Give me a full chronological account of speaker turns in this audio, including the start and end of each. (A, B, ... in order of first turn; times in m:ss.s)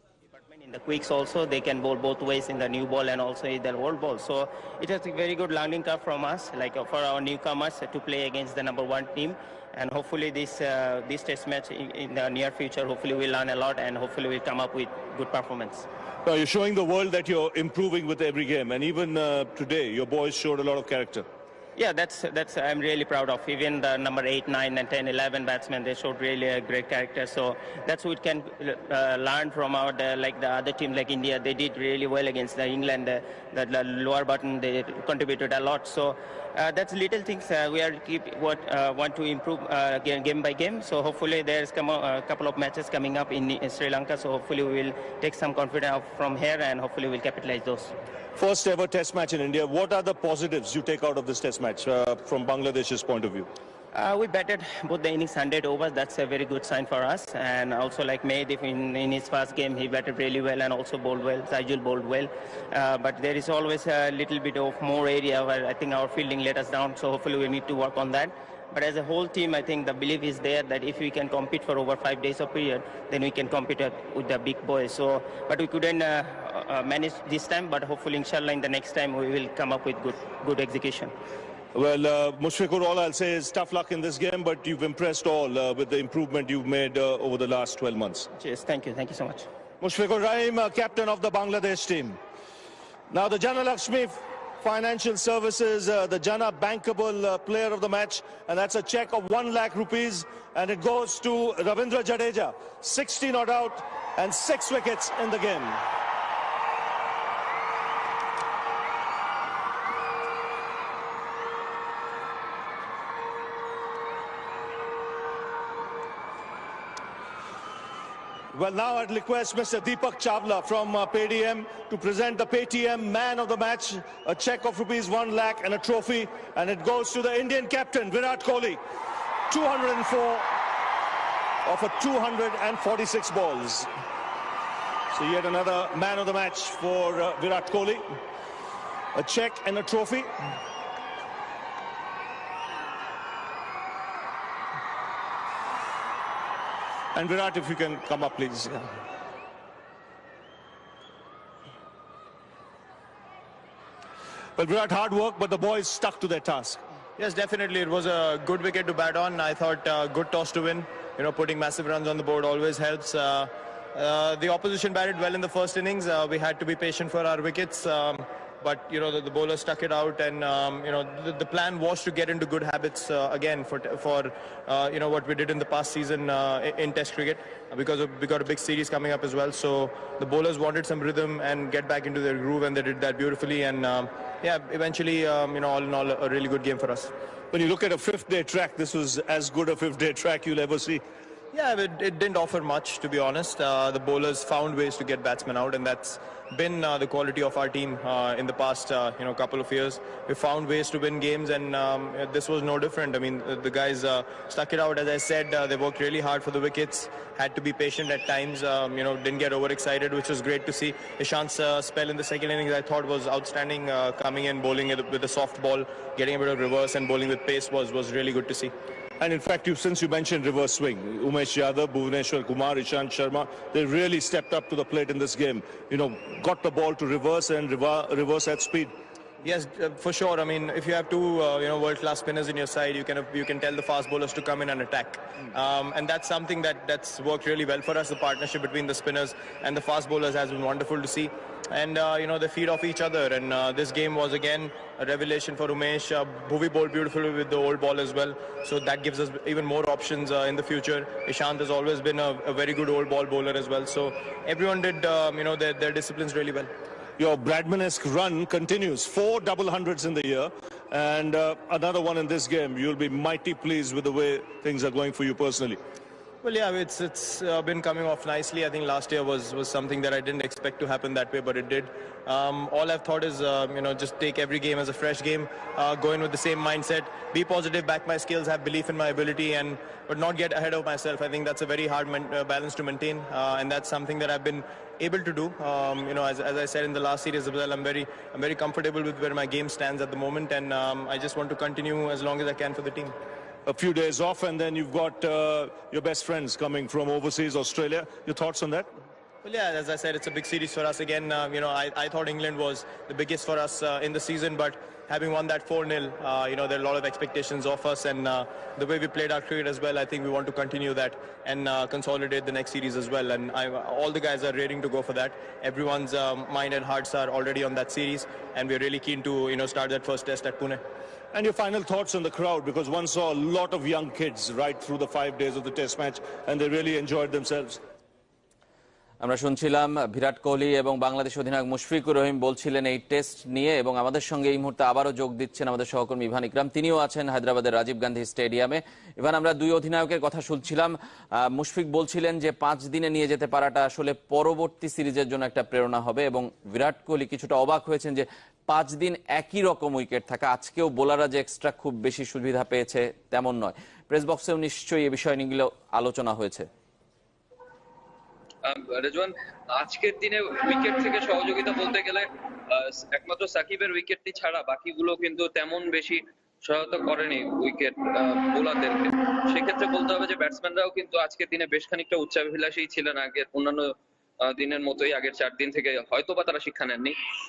0:00.4-0:15.9 A
0:16.2-0:21.3 B
0:21.8-0:47.9 A
0:48.4-0:53.5 B
0:53.9-1:21.1 A
1:21.7-1:28.3 B
1:28.4-1:29.5 A
1:29.8-1:32.2 B
1:33.1-1:45.8 B
1:58.5-2:08.8 B
2:09.5-2:10.5 B
2:11.6-2:13.9 B
2:15.1-2:18.2 B
2:19.2-2:20.3 B
2:27.2-2:28.9 B
2:34.6-2:36.8 B
2:37.2-3:07.1 C
3:07.5-3:11.0 B
3:11.5-3:38.7 C
3:39.2-3:48.9 B
3:49.4-4:16.7 C
4:17.2-4:25.8 B
4:26.4-4:53.1 C
4:53.7-4:58.9 B
4:59.4-5:20.8 C
5:21.3-5:27.8 B
5:29.2-5:56.7 D
5:58.7-6:13.9 E
6:14.4-6:17.2 E